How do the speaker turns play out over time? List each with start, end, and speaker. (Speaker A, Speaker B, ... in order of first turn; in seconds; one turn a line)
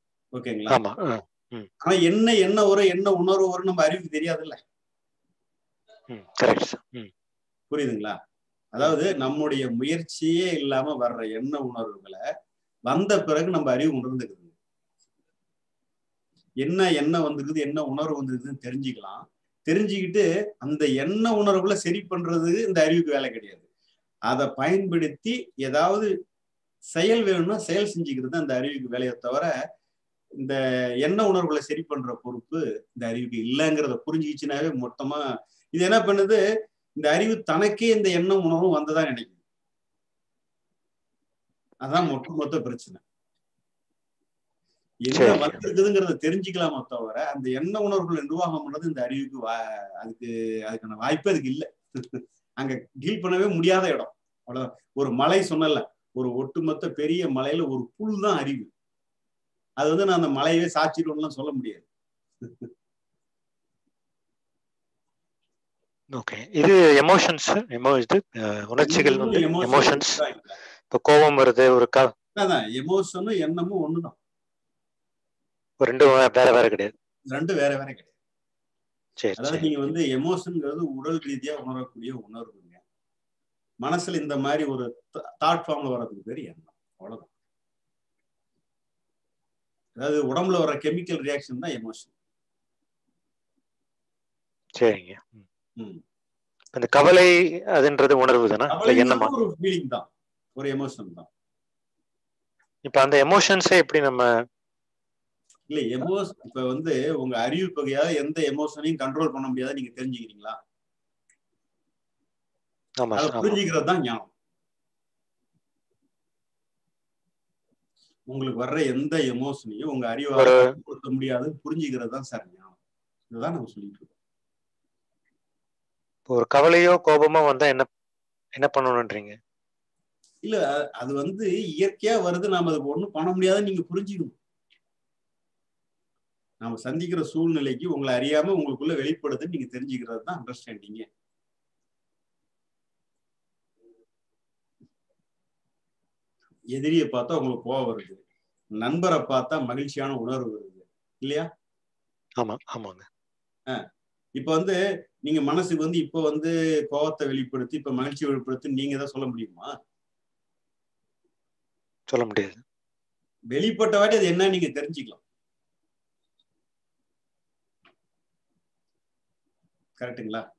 Speaker A: 0.3-0.8
Speaker B: 0.7-1.7
Speaker A: 1.8-4.6
Speaker B: 6.1-7.1
Speaker A: 7.7-8.2
Speaker A: 8.7-12.2
Speaker A: 12.9-14.5
Speaker A: 16.6-23.6
Speaker A: 24.3-26.1
Speaker A: 26.9-29.5
Speaker A: 30.4-35.2
Speaker A: 35.7-36.4
Speaker A: 37.0-39.3
Speaker A: 41.8-43.0
Speaker A: 45.1-58.7
Speaker B: 45.1-45.6
Speaker A: 59.8-61.8
Speaker B: 66.1-70.2
Speaker A: 68.8-70.5
Speaker B: 70.9-72.1
Speaker A: 72.3-74.2
Speaker B: 75.8-76.9
Speaker A: 77.3-78.1
Speaker B: 79.2-79.9
Speaker A: 79.4-82.8
Speaker A: 83.8-87.3
Speaker A: 90.0-92.1
Speaker B: 94.8-95.4
Speaker B: 96.8-99.3
Speaker A: 98.7-101.3
Speaker B: 102.9-104.3
Speaker A: 105.7-110.6
Speaker B: 113.0-113.6
Speaker A: 113.2-114.3
Speaker A: 118.3-122.7
Speaker B: 120.3-120.7
Speaker A: 123.3-124.1
Speaker B: 126.3-127.9
Speaker B: 128.6-129.4
Speaker A: 130.4-134.3
Speaker A: 136.6-141.1
Speaker A: 146.8-148.2
Speaker A: 148.8-151.5
Speaker B: 152.4-153.1
Speaker A: 154.4-159.7
Speaker B: 162.1-162.6
Speaker A: 163.5-165.2
Speaker A: 170.0-170.4